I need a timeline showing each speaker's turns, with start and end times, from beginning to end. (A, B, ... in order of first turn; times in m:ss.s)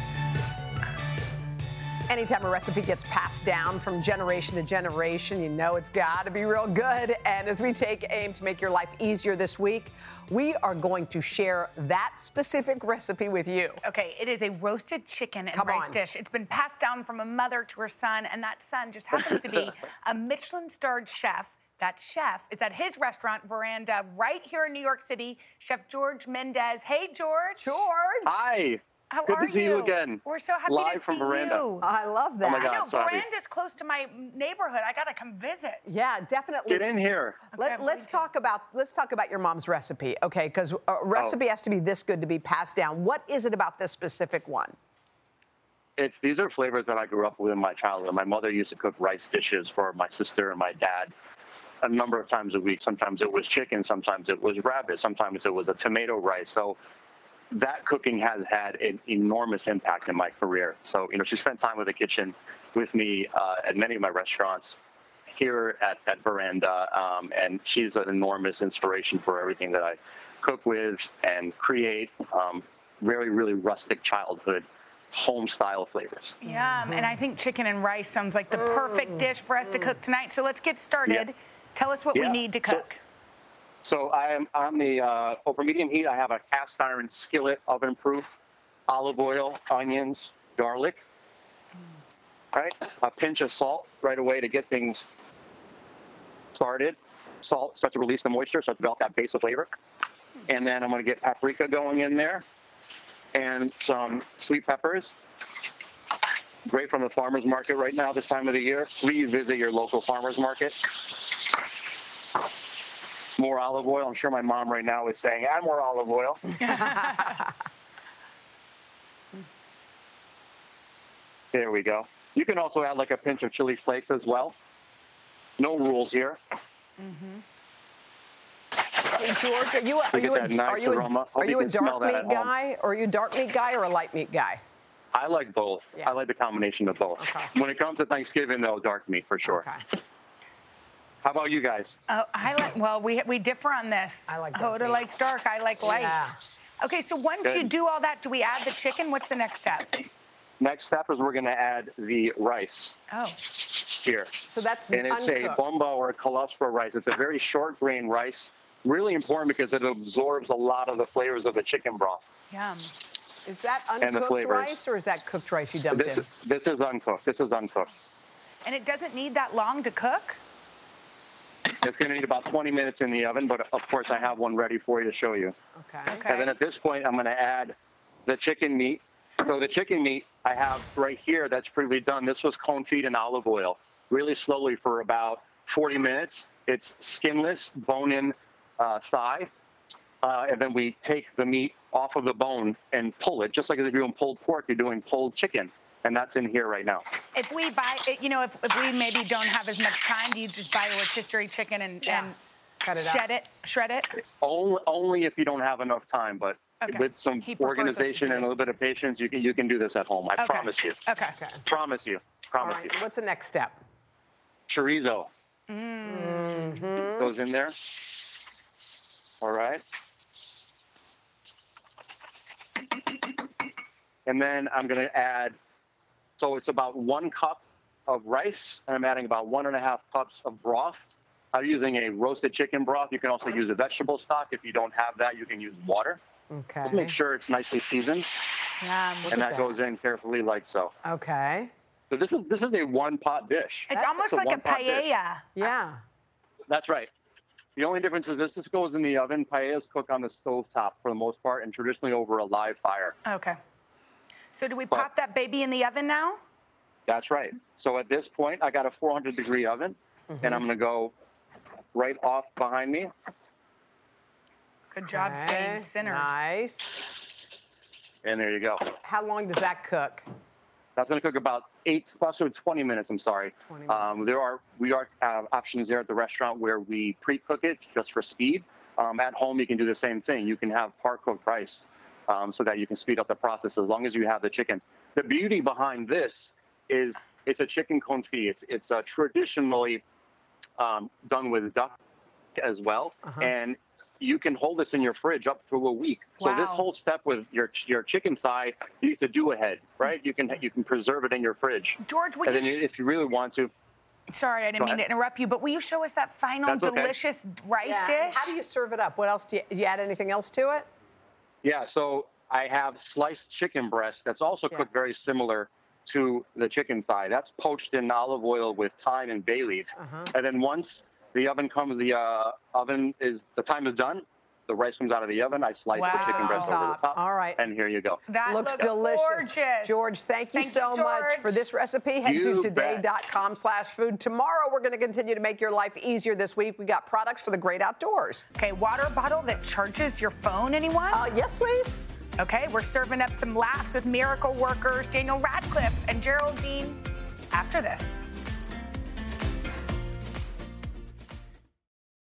0:02.1-0:13.8 A
0:13.8-0:27.8 B
0:15.5-0:16.0 A
0:27.6-0:28.4 A
0:28.2-0:31.6 C
0:29.1-0:31.9 B
0:31.8-0:32.7 A
0:32.4-0:33.2 C
0:32.5-0:35.8 B
0:35.8-0:36.9 A
0:36.7-0:37.4 C
0:37.5-0:44.7 A
0:37.5-0:38.3 B
0:46.0-0:51.1 C
0:51.8-0:56.8 C
0:57.5-1:04.8 C
1:05.3-1:16.4 C
1:16.4-1:23.0 B
1:16.4-1:17.2 A
1:18.5-1:19.9 A
1:22.1-1:22.8 C
1:23.8-1:28.3 C
1:28.9-1:31.0 C
1:32.5-1:35.1 C
1:36.5-1:39.7 C
1:40.5-1:42.4 C
1:43.3-1:45.2 C
1:46.6-1:51.4 C
1:53.4-1:56.6 C
1:56.6-1:57.4 B
2:01.5-2:04.5 C
2:05.6-2:06.4 C
2:07.0-2:07.4 B
2:09.1-2:14.6 A
2:10.1-2:12.5 C
2:15.1-2:19.6 C
2:17.2-2:17.5 A
2:19.4-2:19.8 A
2:21.2-2:22.0 C
2:22.1-2:30.0 B
2:24.3-2:25.1 A
2:25.8-2:26.4 A
2:27.4-2:27.7 C
2:30.6-2:32.9 C
2:33.1-2:33.4 B
2:33.7-2:34.4 C
2:34.5-2:35.6 A
2:34.9-2:42.2 C
2:42.5-2:42.9 B
2:43.4-2:46.2 A
2:44.0-2:44.8 C
2:45.9-2:47.9 C
2:48.6-2:50.4 B
2:51.7-2:55.5 C
2:55.8-2:56.2 A
2:56.1-2:56.5 B
2:56.3-2:57.7 C
2:58.2-3:09.5 C
3:10.2-3:17.0 C
3:17.3-3:22.4 B
3:22.0-3:22.3 A
3:22.8-3:23.2 A
3:22.9-3:24.1 B
3:24.4-3:31.0 C
3:26.8-3:28.5 B
3:30.4-3:31.4 B
3:31.3-3:31.6 A
3:31.6-3:32.9 C
3:32.6-3:33.8 A
3:34.7-3:35.3 C
3:35.7-3:36.8 B
3:36.0-3:37.3 A
3:37.1-3:38.1 C
3:39.4-3:39.8 C
3:44.2-3:45.6 C
3:46.4-3:56.2 C
3:56.5-3:57.2 A
3:56.8-3:58.6 C
3:58.8-3:59.4 B
3:59.2-3:59.7 A
3:59.3-4:00.9 C
4:01.0-4:01.7 A
4:02.1-4:05.1 C
4:03.9-4:05.5 B
4:03.9-4:04.2 A
4:05.6-4:06.0 A
4:06.7-4:07.1 C
4:07.8-4:13.2 C
4:13.2-4:13.6 B
4:14.5-4:16.4 B
4:17.1-4:21.1 C
4:20.3-4:20.6 A
4:21.9-4:23.1 C
4:24.9-4:26.3 B
4:25.1-4:27.2 A
4:28.2-4:28.8 C
4:29.0-4:30.2 A
4:31.0-4:50.0 C
4:33.6-4:34.2 A
4:50.8-4:51.9 C
4:52.6-5:03.7 C
4:53.2-4:53.5 A
4:56.4-4:56.8 B
5:02.0-5:02.8 B
5:04.3-5:08.5 B
5:06.6-5:07.1 C
5:07.8-5:10.9 A
5:11.6-5:28.2 C
5:20.0-5:20.3 A
5:26.0-5:26.8 B
5:26.0-5:27.6 A
5:28.3-5:30.0 B
5:28.4-5:38.4 A
5:30.5-5:31.6 B
5:32.2-5:33.0 C
5:38.6-5:41.2 B
5:41.1-5:42.0 A
5:42.4-5:48.2 B